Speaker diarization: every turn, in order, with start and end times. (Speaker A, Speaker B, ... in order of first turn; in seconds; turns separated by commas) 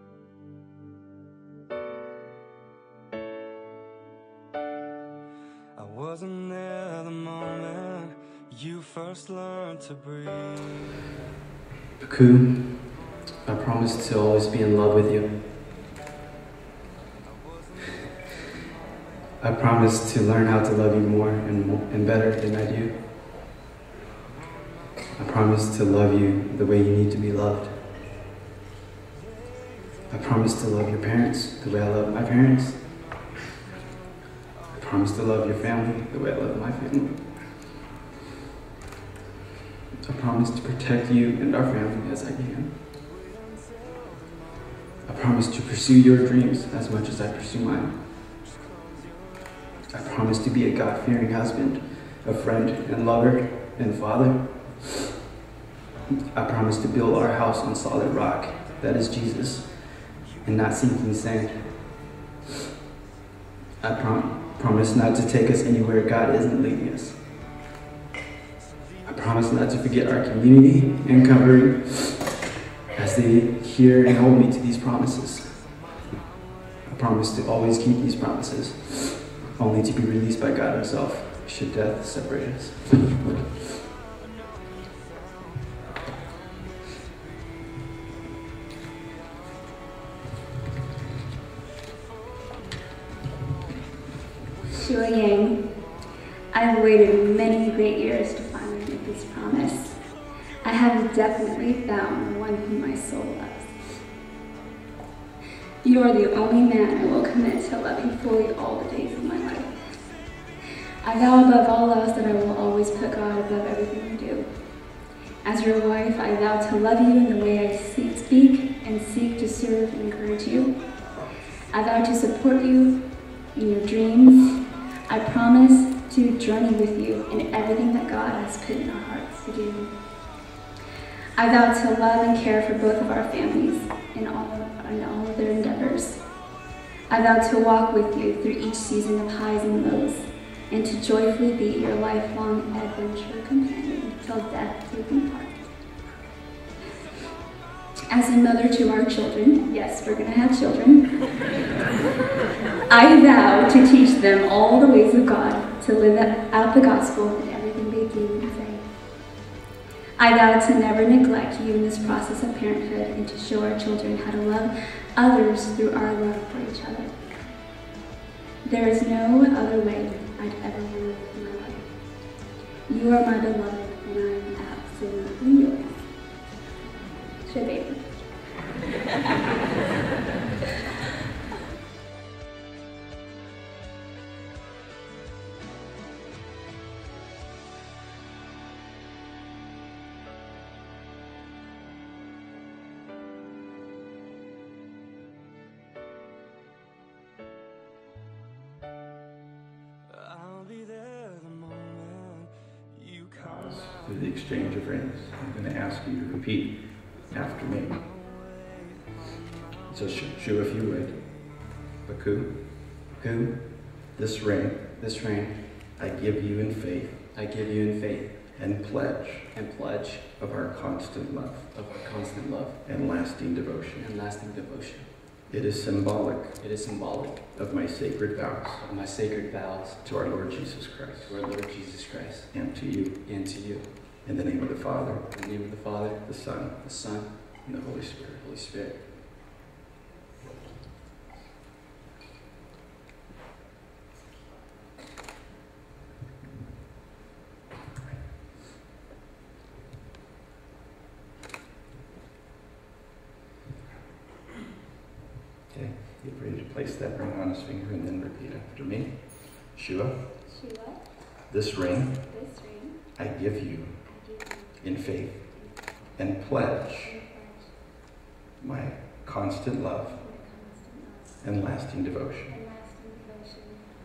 Speaker A: 5.8-10.4, Speaker B: 12.0-12.9, Speaker B: 13.5-15.4, Speaker B: 19.4-22.9, Speaker B: 25.2-27.8, Speaker B: 30.1-32.8, Speaker B: 34.7-37.2, Speaker B: 40.1-42.7, Speaker B: 45.1-48.0, Speaker B: 49.9-54.9, Speaker B: 56.3-59.7, Speaker B: 60.4-61.6, Speaker B: 63.8-67.2, Speaker B: 69.0-72.2, Speaker B: 73.0-75.5, Speaker B: 76.9-82.8, Speaker C: 94.7-95.6, Speaker C: 96.5-100.0, Speaker C: 100.6-103.7, Speaker C: 105.8-109.8, Speaker C: 111.0-114.5, Speaker C: 115.4-120.8, Speaker C: 121.7-123.0, Speaker C: 123.5-129.9, Speaker C: 131.4-136.2, Speaker C: 137.1-145.7, Speaker C: 148.1-151.1, Speaker C: 152.9-158.8, Speaker C: 160.2-167.2, Speaker C: 168.7-171.9, Speaker C: 172.9-176.0, Speaker C: 177.4-178.1, Speaker D: 203.4-206.8, Speaker D: 207.3-208.1, Speaker D: 209.9-211.2, Speaker D: 212.1-212.5, Speaker B: 213.2-213.5, Speaker D: 214.2-214.9, Speaker B: 215.0-215.6, Speaker D: 216.0-217.2, Speaker B: 217.3-218.3, Speaker D: 218.6-219.5, Speaker B: 219.5-220.3, Speaker D: 220.4-221.7, Speaker B: 221.7-222.8, Speaker D: 222.8-224.1, Speaker B: 224.0-225.1, Speaker D: 225.5-226.6, Speaker B: 226.6-227.6, Speaker D: 227.6-228.8, Speaker B: 228.8-230.0, Speaker D: 230.0-231.4, Speaker B: 231.2-232.5, Speaker D: 232.5-233.2, Speaker B: 233.2-233.9, Speaker D: 234.2-235.3, Speaker B: 235.3-236.2, Speaker D: 236.2-236.8, Speaker B: 236.8-237.3, Speaker D: 237.7-238.4, Speaker B: 238.4-239.0, Speaker D: 255.7-259.1, Speaker D: 259.8-260.1, Speaker C: 260.5-261.0, Speaker D: 261.5-262.2, Speaker C: 262.2-263.0, Speaker D: 263.2-263.9, Speaker C: 264.1-264.8, Speaker D: 264.8-265.4, Speaker D: 266.2-267.1, Speaker C: 266.9-267.7, Speaker D: 268.6-270.2, Speaker C: 270.2-271.4, Speaker D: 271.4-272.6, Speaker C: 272.5-273.8